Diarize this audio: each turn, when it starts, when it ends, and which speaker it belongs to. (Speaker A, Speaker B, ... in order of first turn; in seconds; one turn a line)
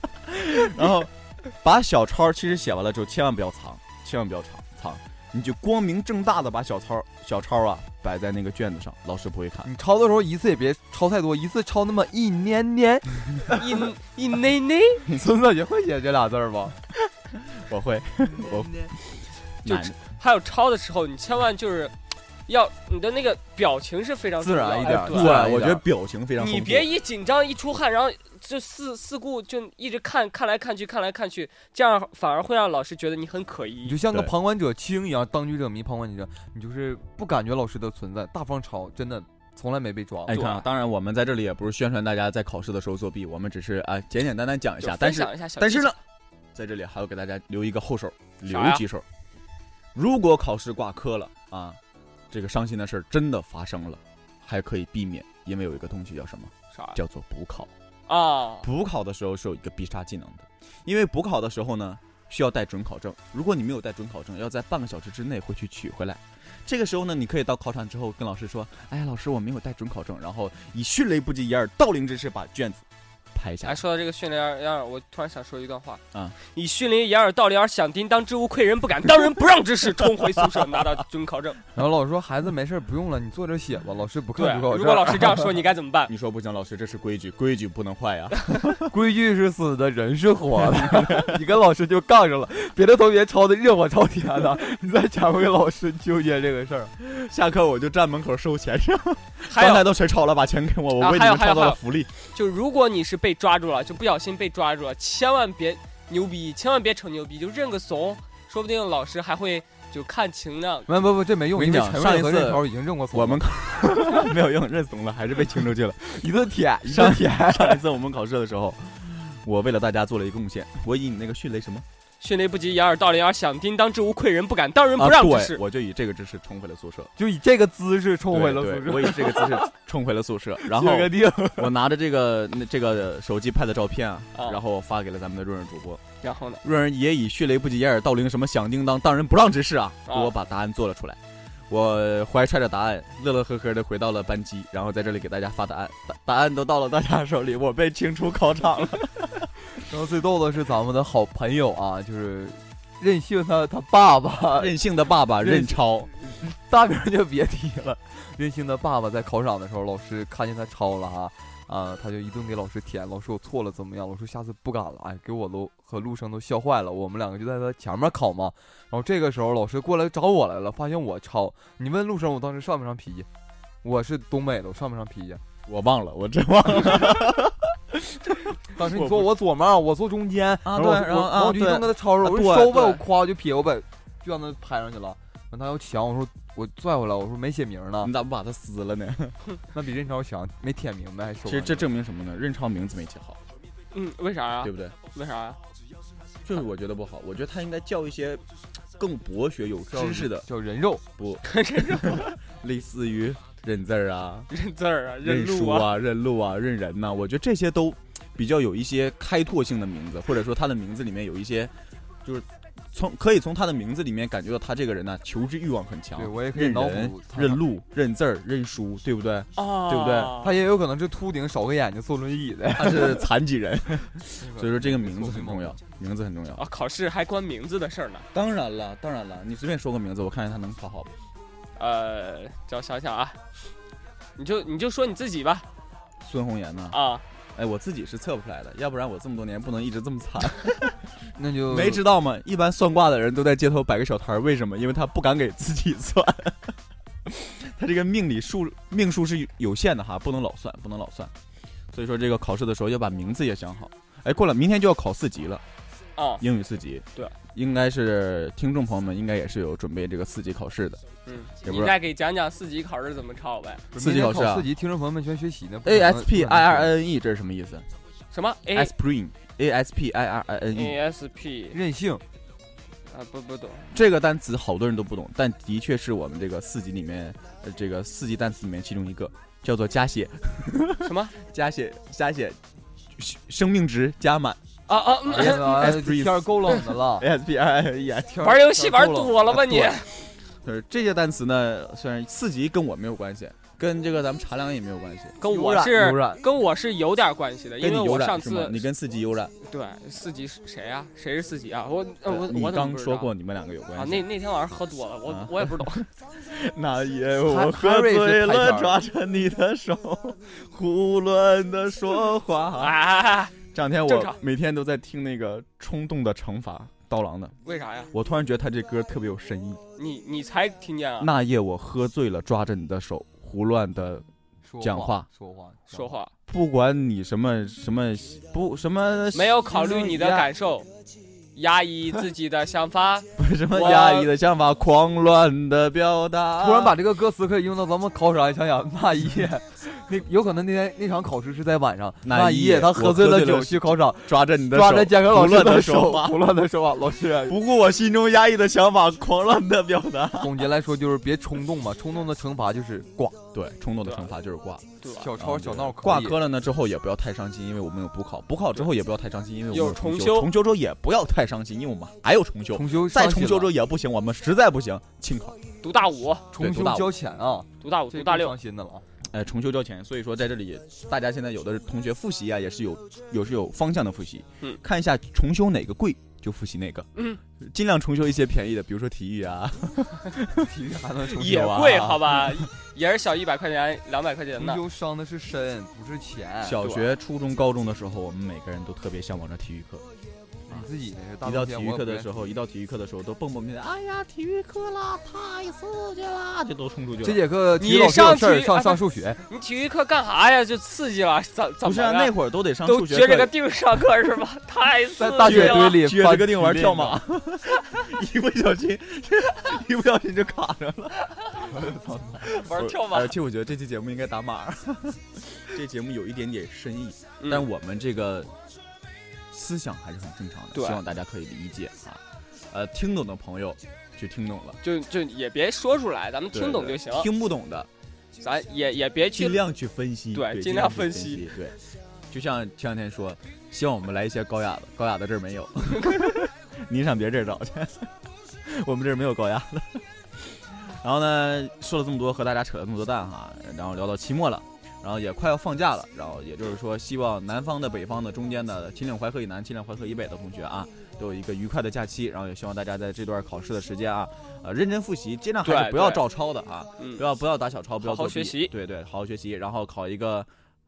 Speaker A: 0.2-9.7
Speaker B: 9.6-13.6
Speaker C: 13.5-15.1
Speaker B: 15.1-16.8
Speaker A: 17.5-20.0
Speaker B: 18.4-18.9
Speaker C: 19.6-21.9
Speaker C: 22.5-25.4
Speaker B: 24.4-25.9
Speaker A: 24.9-26.9
Speaker C: 26.4-34.0
Speaker B: 33.9-40.4
Speaker A: 40.3-46.0
Speaker C: 40.3-40.7
Speaker C: 44.8-46.0
Speaker A: 46.5-49.0
Speaker C: 48.5-48.8
Speaker A: 50.0-51.8
Speaker A: 52.3-57.7
Speaker C: 56.7-57.0
Speaker C: 58.1-58.7
Speaker A: 58.6-73.8
Speaker C: 73.6-81.6
Speaker B: 81.8-85.5
Speaker C: 84.3-86.1
Speaker A: 86.1-88.9
Speaker B: 88.9-96.9
Speaker A: 90.8-91.4
Speaker A: 97.0-102.2
Speaker C: 99.5-99.9
Speaker C: 101.0-110.9
Speaker B: 110.9-113.4
Speaker A: 111.5-116.0
Speaker B: 116.0-117.8
Speaker A: 116.9-121.8
Speaker C: 122.2-125.6
Speaker A: 125.0-127.1
Speaker B: 127.2-129.7
Speaker A: 128.3-136.0
Speaker B: 130.6-131.7
Speaker C: 134.3-134.6
Speaker C: 136.2-136.6
Speaker A: 136.6-149.5
Speaker B: 149.8-154.8
Speaker A: 154.6-156.1
Speaker B: 155.4-173.3
Speaker B: 173.8-175.4
Speaker A: 175.7-179.3
Speaker B: 178.7-188.1
Speaker A: 180.6-183.0
Speaker A: 188.0-189.4
Speaker B: 189.7-191.9
Speaker A: 191.4-193.4
Speaker C: 193.9-195.6
Speaker A: 194.6-195.0
Speaker A: 196.4-198.4
Speaker A: 199.0-200.5
Speaker B: 199.9-201.0
Speaker A: 201.2-204.5
Speaker C: 201.5-202.4
Speaker C: 204.5-205.9
Speaker A: 205.2-211.7
Speaker A: 212.2-220.3
Speaker B: 216.2-217.7
Speaker C: 219.6-220.6
Speaker B: 220.4-223.3
Speaker A: 222.8-226.6
Speaker B: 224.4-225.8
Speaker C: 226.6-228.3
Speaker A: 228.3-231.1
Speaker C: 231.8-233.4
Speaker C: 234.4-235.7
Speaker A: 236.2-237.0
Speaker C: 236.9-237.2
Speaker A: 237.6-241.0
Speaker B: 241.3-242.0
Speaker A: 241.7-246.7
Speaker A: 247.3-251.3
Speaker A: 251.9-255.6
Speaker C: 256.2-256.4
Speaker A: 256.4-261.0
Speaker C: 261.3-263.9
Speaker A: 261.6-261.9
Speaker B: 263.9-267.0
Speaker A: 264.0-264.7
Speaker A: 265.9-267.9
Speaker C: 268.3-268.9
Speaker A: 268.7-271.0
Speaker C: 270.7-271.8
Speaker B: 271.7-272.2
Speaker C: 273.1-273.9
Speaker A: 273.9-282.6
Speaker C: 281.0-281.3
Speaker A: 283.2-284.6
Speaker C: 284.9-285.9
Speaker A: 285.3-288.5
Speaker B: 285.3-287.3
Speaker B: 288.3-289.6
Speaker C: 288.4-290.1
Speaker A: 289.5-290.1
Speaker A: 290.6-295.4
Speaker C: 295.4-298.9
Speaker B: 295.5-296.4
Speaker A: 297.8-299.5
Speaker C: 299.6-303.3
Speaker A: 302.3-304.3
Speaker C: 303.9-306.0
Speaker A: 305.3-313.0
Speaker B: 307.5-309.0
Speaker C: 312.8-314.4
Speaker A: 313.7-317.5
Speaker C: 317.6-318.1
Speaker A: 318.1-319.8
Speaker C: 320.0-321.3
Speaker A: 321.2-324.3
Speaker B: 324.6-326.2
Speaker A: 324.8-325.3
Speaker C: 325.9-326.3
Speaker A: 326.5-330.5
Speaker C: 329.3-330.9
Speaker C: 331.6-334.3
Speaker A: 333.4-337.0
Speaker B: 336.6-347.6
Speaker A: 342.2-346.4
Speaker A: 347.5-350.6
Speaker B: 350.4-353.4
Speaker A: 353.5-365.6
Speaker C: 354.0-354.3
Speaker C: 355.0-355.3
Speaker B: 355.2-356.4
Speaker C: 359.7-360.5
Speaker B: 362.7-363.7
Speaker C: 365.8-366.5
Speaker B: 366.5-369.1
Speaker A: 366.6-367.1
Speaker C: 367.8-368.6
Speaker A: 369.3-377.1
Speaker A: 377.6-380.7
Speaker B: 380.6-381.7
Speaker A: 381.3-382.5
Speaker C: 381.4-384.8
Speaker B: 384.6-386.8
Speaker A: 386.6-390.1
Speaker C: 386.8-387.1
Speaker B: 390.7-392.5
Speaker A: 391.4-397.4
Speaker B: 397.2-399.4
Speaker C: 397.8-402.3
Speaker A: 401.8-403.5
Speaker C: 402.8-406.0
Speaker B: 405.2-407.2
Speaker A: 405.4-411.6
Speaker B: 411.7-412.4
Speaker A: 412.4-418.5
Speaker C: 412.5-413.3
Speaker C: 417.4-417.7
Speaker A: 419.5-424.8
Speaker C: 420.7-421.0
Speaker C: 424.8-427.3
Speaker A: 426.5-427.9
Speaker C: 428.4-429.6
Speaker A: 429.3-431.8
Speaker C: 430.3-431.5
Speaker A: 432.3-438.1
Speaker A: 438.7-460.5
Speaker C: 455.6-456.2
Speaker C: 457.0-457.2
Speaker C: 458.0-458.7